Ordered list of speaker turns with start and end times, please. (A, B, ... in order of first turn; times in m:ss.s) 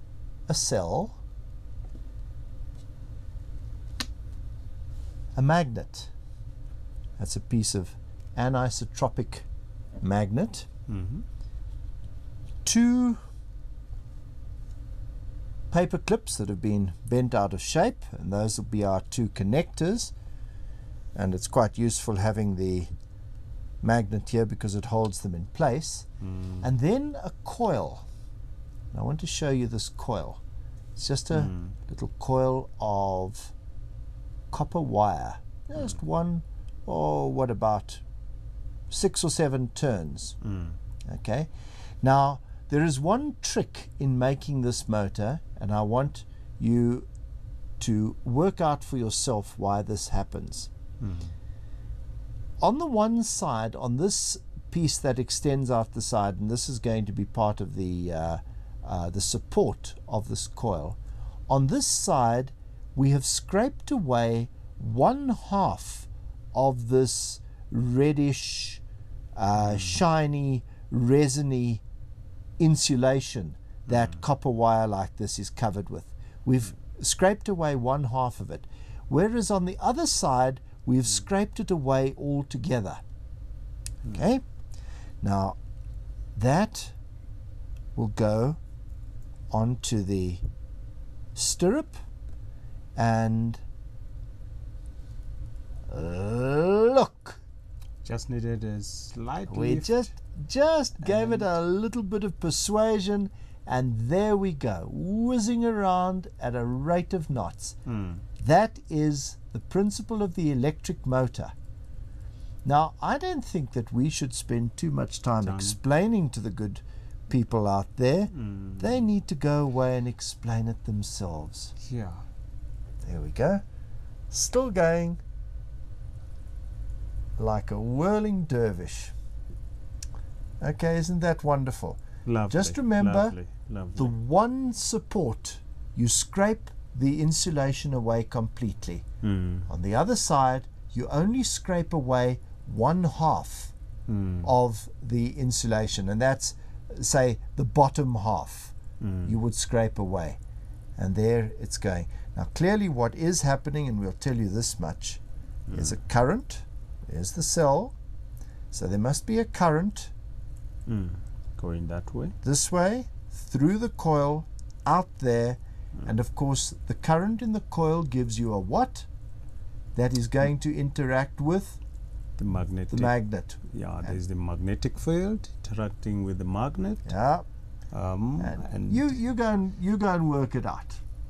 0:00.5-0:01.2 A
0:05.3-0:06.1 A
0:07.2-0:09.5 A
0:10.0-0:10.7 A
0:10.9-0:11.2 B
0:12.6-0:13.2 A
0:15.7-0:20.1 A
0:21.1-0:22.9 A
0:23.8-0:26.1 A
0:26.2-0:26.6 B
0:26.6-0:28.0 A
0:28.9-0:30.4 A
0:31.0-0:33.5 A
0:31.3-0:31.8 B
0:34.5-0:38.0 A
0:38.9-0:40.4 A
0:40.4-0:40.8 B
0:41.0-0:47.1 A
0:47.8-0:50.7 A
0:51.0-0:51.3 B
0:52.6-1:01.0 A
1:01.5-1:08.8 A
1:09.4-1:11.8 A
1:09.6-1:10.0 B
1:12.6-1:23.0 A
1:24.1-1:24.4 A
1:25.2-1:25.6 A
1:26.3-1:27.0 A
1:28.0-1:28.6 A
1:29.5-1:30.4 A
1:31.3-1:32.0 A
1:33.0-1:33.6 A
1:35.9-1:37.4 A
1:38.0-1:40.0 B
1:39.5-1:47.8 A
1:41.0-1:41.5 B
1:47.8-1:48.2 B
1:48.4-1:51.5 A
1:52.6-2:01.7 A
1:55.4-1:55.8 B
1:58.3-1:59.0 B
2:01.8-2:02.2 B
2:03.0-2:03.6 A
2:04.3-2:05.2 A
2:07.4-2:09.1 A
2:10.6-2:13.4 A
2:12.2-2:14.1 B
2:14.0-2:19.0 A
2:19.2-2:19.7 B
2:19.7-2:23.7 A
2:24.1-2:24.5 B
2:24.4-2:30.4 A
2:29.0-2:29.4 B
2:31.0-2:35.2 A
2:35.7-2:36.0 B
2:35.7-2:37.9 A
2:38.7-2:40.1 A
2:40.8-2:42.4 B
2:42.4-2:49.1 A
2:49.9-2:51.8 A
2:52.4-2:57.1 B
2:52.9-2:54.2 A
2:57.0-2:57.4 A
2:57.9-2:59.1 B
2:58.4-3:01.0 A